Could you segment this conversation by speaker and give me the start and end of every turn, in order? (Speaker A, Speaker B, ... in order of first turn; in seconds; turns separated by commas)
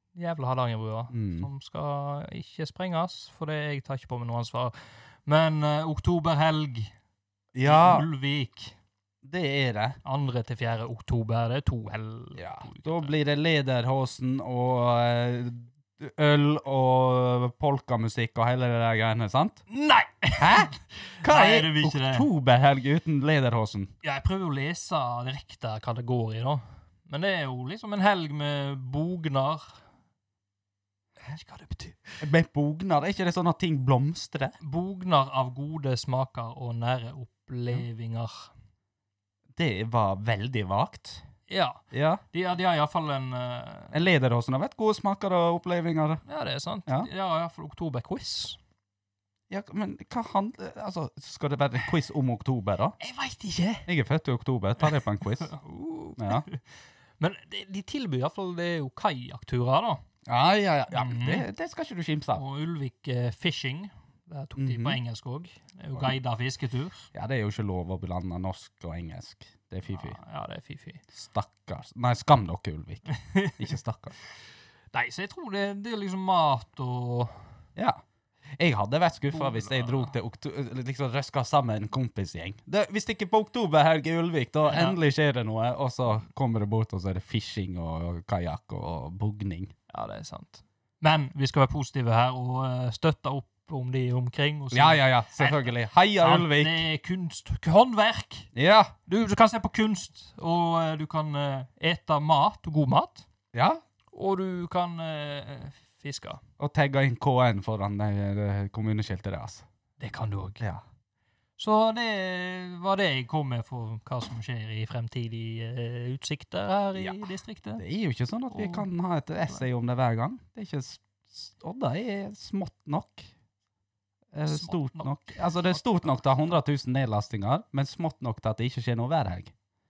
Speaker A: 0.1-6.9, Speaker B: 1.1-1.5, Speaker B: 7.5-8.1, Speaker A: 7.6-8.8, Speaker B: 9.2-10.0, Speaker A: 10.0-13.1, Speaker B: 12.4-19.6, Speaker A: 19.7-22.3, Speaker B: 20.4-23.9, Speaker A: 24.0-29.8, Speaker A: 31.2-32.2, Speaker B: 32.2-34.5, Speaker A: 34.6-38.5, Speaker B: 39.5-41.2, Speaker A: 41.5-44.0, Speaker B: 41.9-42.2, Speaker B: 43.9-46.2, Speaker A: 46.2-48.6, Speaker B: 49.5-53.0, Speaker A: 53.0-53.9, Speaker B: 53.9-55.5, Speaker A: 54.8-56.6, Speaker B: 56.2-56.4, Speaker A: 57.2-60.0, Speaker B: 60.2-62.4, Speaker A: 60.9-61.4, Speaker A: 62.3-67.1, Speaker B: 64.6-65.0, Speaker B: 67.1-70.2, Speaker A: 69.9-71.0, Speaker B: 71.1-74.1, Speaker A: 73.1-73.6, Speaker A: 74.9-77.4, Speaker B: 78.6-89.7, Speaker A: 79.3-80.1, Speaker A: 84.7-85.0, Speaker A: 89.9-98.5, Speaker B: 94.7-96.8, Speaker B: 98.5-98.9, Speaker A: 99.1-103.3, Speaker B: 103.5-103.8, Speaker A: 104.1-106.4, Speaker B: 106.6-109.6, Speaker A: 110.0-110.6, Speaker A: 111.6-117.8, Speaker B: 117.8-123.3, Speaker A: 118.5-118.9, Speaker B: 124.3-129.5, Speaker A: 124.5-126.1